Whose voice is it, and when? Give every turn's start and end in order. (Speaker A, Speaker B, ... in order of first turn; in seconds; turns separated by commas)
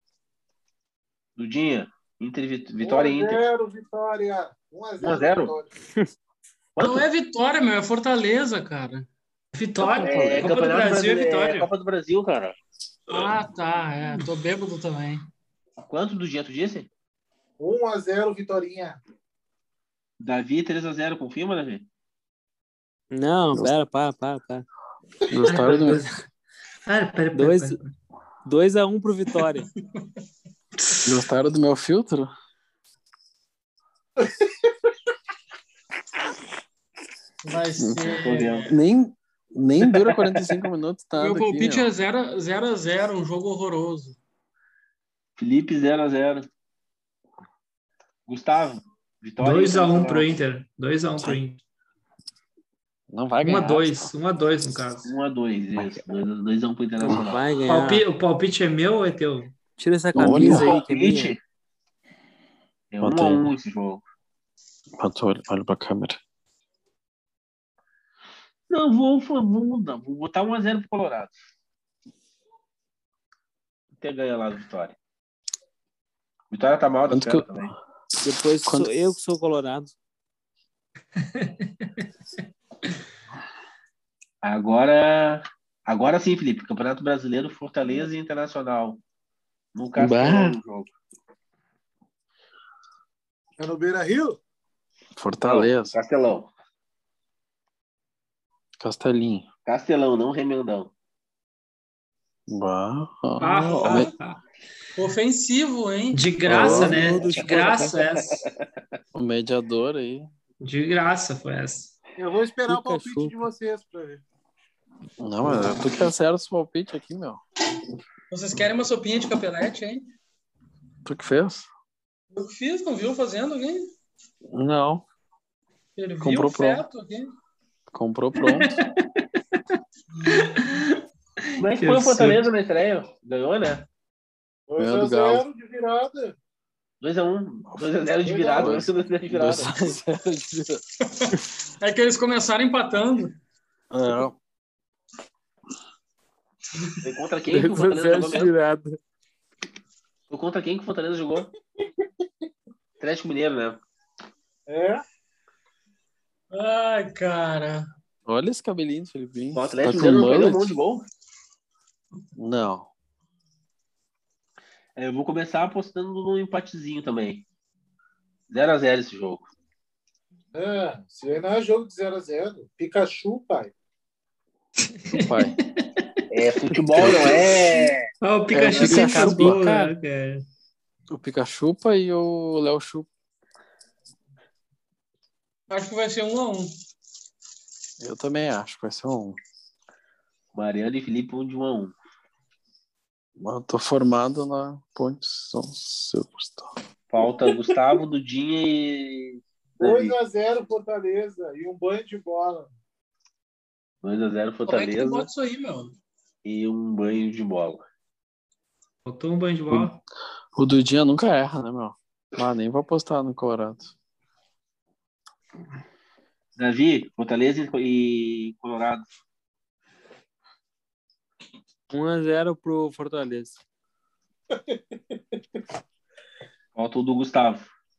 Speaker A: 1.4-3.4, Speaker B: 2.8-5.7, Speaker A: 5.0-5.5, Speaker A: 6.8-7.0, Speaker C: 6.8-9.1, Speaker D: 9.5-11.7, Speaker A: 9.8-12.6, Speaker E: 10.0-10.5, Speaker C: 13.1-15.2, Speaker A: 15.9-16.9, Speaker B: 17.6-19.0, Speaker A: 20.2-21.9, Speaker F: 23.1-24.6, Speaker E: 25.3-26.0, Speaker D: 25.5-26.1, Speaker D: 26.9-27.9, Speaker F: 27.3-27.8, Speaker F: 28.4-29.7, Speaker E: 31.0-32.3, Speaker B: 34.2-34.5, Speaker C: 37.4-38.8, Speaker E: 37.8-38.2, Speaker A: 38.0-38.7, Speaker E: 38.7-41.9, Speaker A: 40.0-40.5, Speaker C: 41.2-44.2, Speaker A: 45.4-46.5, Speaker A: 48.2-50.3, Speaker D: 49.4-51.6, Speaker E: 53.1-54.1, Speaker D: 53.4-55.1, Speaker A: 55.0-57.4, Speaker E: 55.8-56.0, Speaker F: 57.0-58.0, Speaker D: 57.7-59.5, Speaker F: 59.8-61.3, Speaker E: 60.1-60.8, Speaker A: 60.2-61.4, Speaker A: 62.9-64.0, Speaker E: 63.0-63.5, Speaker E: 65.0-66.2, Speaker A: 68.7-71.4, Speaker A: 74.0-75.0, Speaker A: 76.5-77.7, Speaker E: 77.1-77.7, Speaker F: 78.2-79.9, Speaker D: 81.2-81.9, Speaker A: 84.4-89.0, Speaker A: 89.7-90.9, Speaker E: 90.0-90.6, Speaker B: 93.6-94.4, Speaker E: 95.2-96.0, Speaker A: 95.4-96.5, Speaker E: 98.8-99.5, Speaker A: 99.7-100.9, Speaker E: 102.5-104.1, Speaker D: 103.4-104.4, Speaker C: 105.0-106.2, Speaker D: 106.1-108.5, Speaker E: 106.4-107.1, Speaker F: 106.5-107.9, Speaker A: 107.0-108.5, Speaker E: 109.1-110.3, Speaker D: 110.6-111.9, Speaker B: 112.2-114.2, Speaker F: 112.7-113.4, Speaker E: 115.2-117.4, Speaker C: 118.3-120.1, Speaker E: 121.0-121.7, Speaker C: 122.3-123.8, Speaker E: 124.5-125.0, Speaker C: 125.9-127.3, Speaker E: 126.2-126.8, Speaker E: 127.9-128.8, Speaker D: 128.6-129.1, Speaker C: 130.2-130.6, Speaker D: 130.3-132.5, Speaker A: 131.6-133.8, Speaker B: 134.7-136.3, Speaker E: 134.8-135.4, Speaker A: 137.0-139.8, Speaker B: 138.2-138.9, Speaker E: 138.6-140.8, Speaker C: 141.1-143.3, Speaker E: 143.9-144.3, Speaker A: 147.0-148.5, Speaker F: 147.5-149.0, Speaker A: 150.3-151.5, Speaker A: 153.0-153.8, Speaker B: 154.7-155.0, Speaker C: 156.5-157.9, Speaker E: 158.2-160.7, Speaker A: 159.5-161.1, Speaker E: 162.3-162.9, Speaker A: 165.0-167.4, Speaker A: 168.5-169.5, Speaker B: 170.5-173.7, Speaker D: 174.9-176.2, Speaker E: 175.1-175.5, Speaker A: 176.3-178.1, Speaker E: 176.9-177.4, Speaker D: 178.2-180.4, Speaker E: 178.5-179.8, Speaker F: 178.7-179.9, Speaker E: 181.1-183.1, Speaker C: 185.7-186.7, Speaker E: 188.0-189.4, Speaker A: 190.5-191.9, Speaker E: 193.4-196.7, Speaker A: 197.1-200.2, Speaker B: 199.8-202.7, Speaker A: 204.0-205.3, Speaker C: 204.7-205.9, Speaker A: 206.4-207.8, Speaker D: 209.0-210.0, Speaker E: 210.5-213.9, Speaker A: 216.6-219.1, Speaker F: 221.9-223.6, Speaker B: 224.5-224.8, Speaker A: 226.7-227.7